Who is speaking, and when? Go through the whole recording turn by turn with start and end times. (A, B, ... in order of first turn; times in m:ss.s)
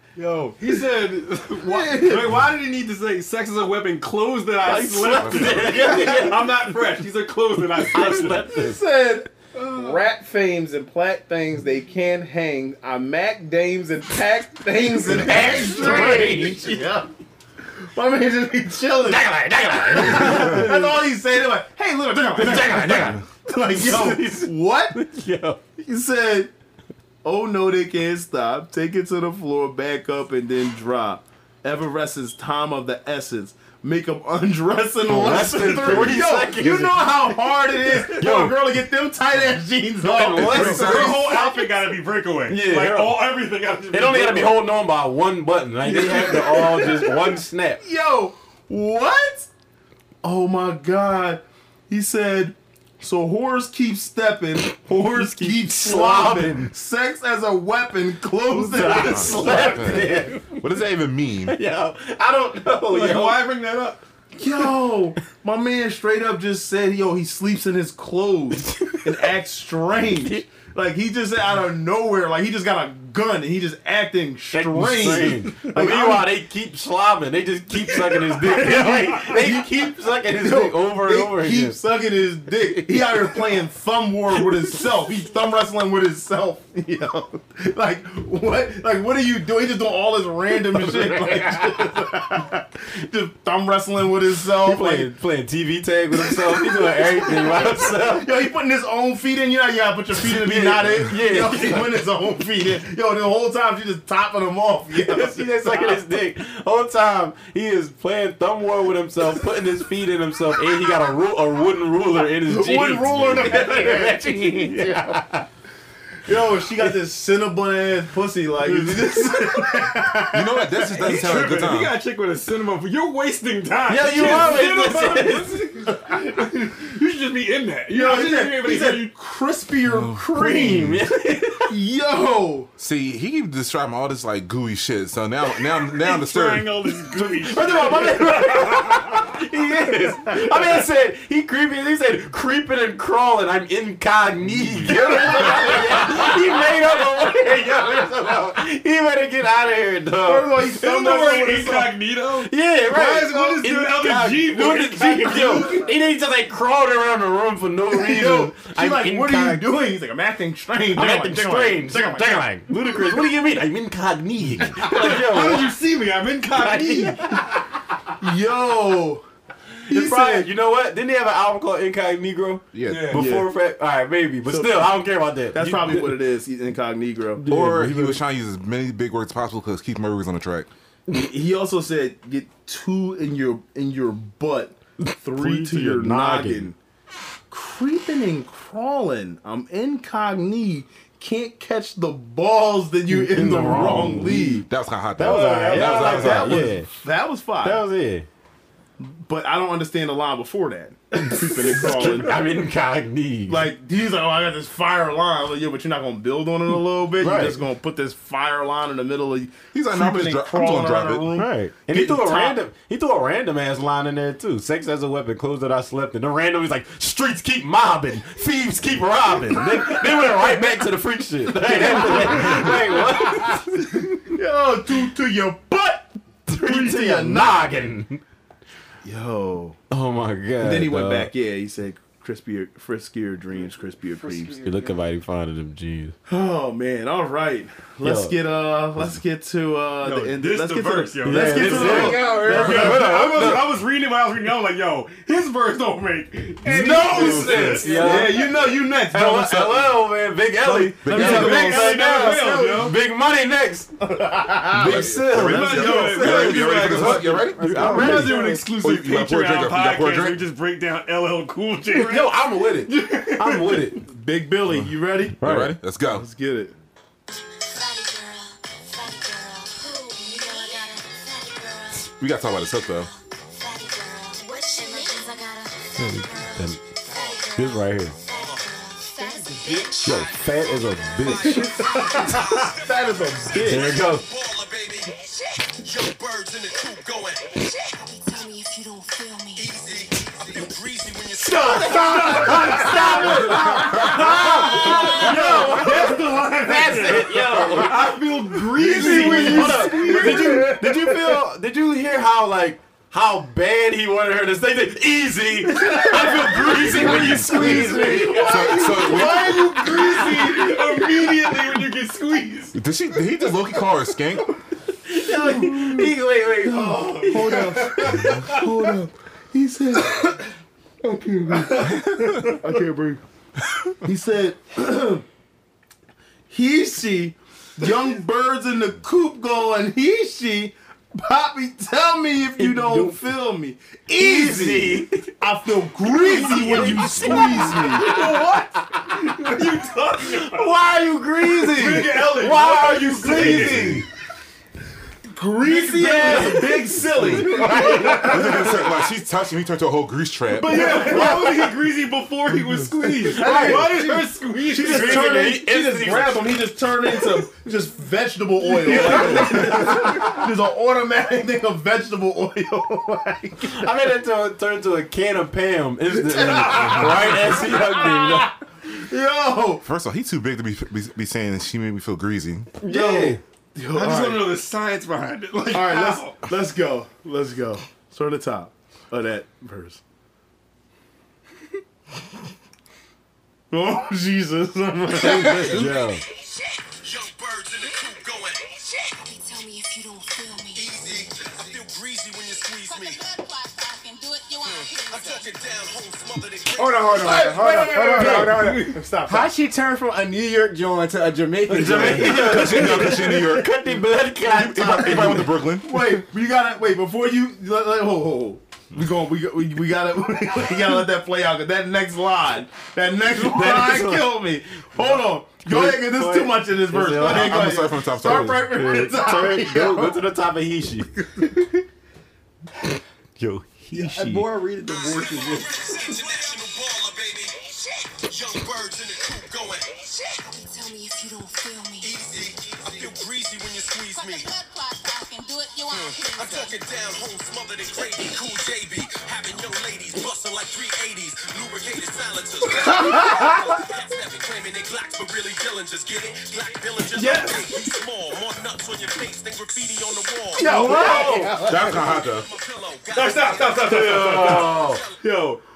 0:00.3-0:08.6 A
0:01.6-0:02.4 B
0:04.6-0:06.7 C
0:05.3-0:05.6 D
0:05.7-0:06.2 B
0:07.9-0:08.8 C
0:08.5-0:17.1 B
0:15.1-0:16.7 C
0:15.9-0:16.4 E
0:17.8-0:25.0 B
0:19.1-0:20.8 C
0:22.4-0:25.6 C
0:25.8-0:26.5 B
0:27.2-0:41.7 B
0:35.1-0:38.6 C
0:40.0-0:41.2 C
0:40.4-0:41.3 D
0:40.4-0:44.7 A
0:42.5-0:43.3 C
0:43.9-0:47.8 C
0:45.8-0:49.5 B
0:50.2-1:00.0 B
0:54.9-0:56.7 C
0:58.5-1:00.5 C
0:59.1-1:01.6 D
1:01.5-1:03.5 C
1:02.9-1:04.0 A
1:04.4-1:16.4 B
1:08.6-1:09.1 C
1:10.1-1:10.5 C
1:14.5-1:21.8 C
1:17.9-1:35.1 B
1:30.9-1:31.8 C
1:34.6-1:38.3 C
1:36.2-1:46.1 B
1:40.2-1:42.0 C
1:45.0-1:55.5 C
1:52.4-1:55.2 B
1:56.2-2:01.1 B
1:58.7-1:59.7 A
2:00.3-2:02.0 D
2:00.8-2:09.1 A
2:03.9-2:05.6 C
2:04.2-2:04.5 B
2:06.0-2:06.7 B
2:07.9-2:11.1 B
2:10.3-2:11.8 C
2:11.6-2:12.7 B
2:12.8-2:16.7 D
2:15.8-2:19.2 A
2:17.1-2:30.5 C
2:25.1-2:25.8 B
2:30.2-2:31.9 B
2:30.7-2:35.8 A
2:32.4-2:39.6 C
2:35.2-2:35.9 B
2:37.9-2:43.2 B
2:40.9-2:45.8 C
2:44.7-2:47.3 A
2:46.6-2:47.5 C
2:48.2-2:49.2 B
2:49.9-2:56.2 C
2:49.9-2:50.5 B
2:52.7-2:53.2 D
2:52.8-2:53.3 A
2:53.1-2:53.5 B
2:54.5-2:57.4 B
2:57.4-2:58.2 C
2:57.5-3:00.7 D
3:01.1-3:06.8 B
3:05.0-3:06.7 C
3:07.5-3:14.7 B
3:13.1-3:14.6 C
3:14.6-3:16.7 D
3:15.2-3:16.9 C
3:15.3-3:17.9 B
3:17.6-3:18.3 C
3:19.0-3:22.4 B
3:21.2-3:23.7 C
3:23.5-3:32.6 B
3:27.2-3:27.6 C
3:29.7-3:31.3 D
3:31.4-3:44.0 C
3:41.6-3:47.8 B
3:46.5-3:48.2 C
3:49.0-3:49.8 B
3:49.9-3:51.3 C
3:50.6-3:54.6 B
3:54.1-3:55.0 F
3:54.6-3:56.1 C
3:56.3-4:03.1 B
3:58.0-3:58.4 C
4:00.0-4:08.2 A
4:01.2-4:03.7 C
4:01.7-4:03.0 F
4:06.6-4:08.3 F
4:06.6-4:13.9 C
4:07.1-4:07.8 D
4:07.9-4:10.1 B
4:10.8-4:13.0 A
4:10.9-4:12.0 B
4:11.0-4:11.6 D
4:14.0-4:17.4 B
4:14.7-4:16.0 C
4:14.8-4:17.9 D
4:15.3-4:24.0 A
4:17.6-4:18.6 F
4:17.6-4:18.6 C
4:17.9-4:18.3 B
4:18.6-4:20.4 D
4:21.9-4:24.0 C
4:24.1-4:25.4 B
4:25.4-4:25.8 C
4:25.4-4:26.3 D
4:26.1-4:26.8 B
4:27.6-4:42.7 G
4:32.2-4:33.1 D
4:36.0-4:36.8 C
4:37.1-4:37.5 H
4:37.6-4:38.2 C
4:38.3-4:38.6 H
4:39.6-4:45.1 H
4:40.0-4:41.7 C
4:41.4-4:43.9 B
4:43.6-4:44.2 C
4:45.1-4:45.8 G
4:45.8-4:47.6 H
4:47.5-4:49.9 G
4:49.6-4:53.3 H
4:51.5-5:10.6 C
4:52.0-4:55.7 B
4:52.0-4:53.1 G
4:52.1-5:00.8 A
4:58.7-5:01.4 B
5:05.9-5:12.8 A
5:05.9-5:10.7 B
5:08.4-5:09.6 D
5:12.7-5:14.5 D
5:15.0-5:18.4 C
5:15.2-5:20.5 B
5:16.9-5:18.6 A
5:21.1-5:23.2 B
5:22.0-5:22.4 D
5:24.0-5:25.2 B
5:26.5-5:38.2 B
5:32.6-5:33.2 C
5:34.1-5:35.3 C
5:36.1-5:39.6 C
5:36.2-5:40.8 A
5:40.2-5:44.1 C
5:41.6-5:44.1 A
5:41.8-5:42.2 B
5:43.2-5:44.0 B
5:45.3-5:48.6 B
5:45.6-5:48.9 A
5:46.3-5:46.6 C
5:47.2-5:48.6 C
5:48.1-5:51.0 D
5:50.5-5:55.4 A
5:50.8-5:51.7 B
5:51.0-5:51.7 C
5:53.0-6:03.9 B
5:53.2-5:54.3 E
5:53.3-5:54.0 C
5:54.8-5:56.6 C
5:58.8-6:00.3 A
5:58.9-6:00.2 C
6:03.6-6:08.6 C
6:06.1-6:09.8 B
6:09.8-6:12.8 D
6:12.8-6:13.4 C
6:12.8-6:14.6 B
6:13.9-6:16.5 A
6:15.7-6:20.0 B
6:23.7-6:26.1 B
6:25.2-6:25.7 A
6:25.2-6:25.8 F
6:25.7-6:26.2 C
6:27.0-6:28.7 H
6:28.7-6:31.3 G
6:30.7-6:33.2 H
6:32.9-6:35.5 G
6:34.7-6:37.5 H
6:36.8-6:43.1 F
6:37.5-6:39.0 A
6:37.5-6:39.5 B
6:38.1-6:38.7 C
6:41.6-6:45.6 C
6:41.9-6:42.4 B
6:42.0-6:45.9 D
6:45.8-7:00.2 B
6:53.3-7:01.4 C
6:57.2-6:58.6 D
7:03.4-7:04.5 C
7:03.9-7:05.8 E
7:04.9-7:07.6 H
7:08.1-7:09.9 H
7:10.0-7:12.3 G
7:12.0-7:14.5 H
7:14.1-7:16.8 G
7:15.9-7:30.9 H
7:22.9-7:23.5 B
7:27.1-7:27.8 A
7:30.6-7:31.6 B
7:30.6-7:31.6 C
7:30.6-7:32.0 F
7:31.6-7:32.5 D
7:31.7-7:35.2 H
7:33.1-7:35.6 A
7:33.8-7:35.0 C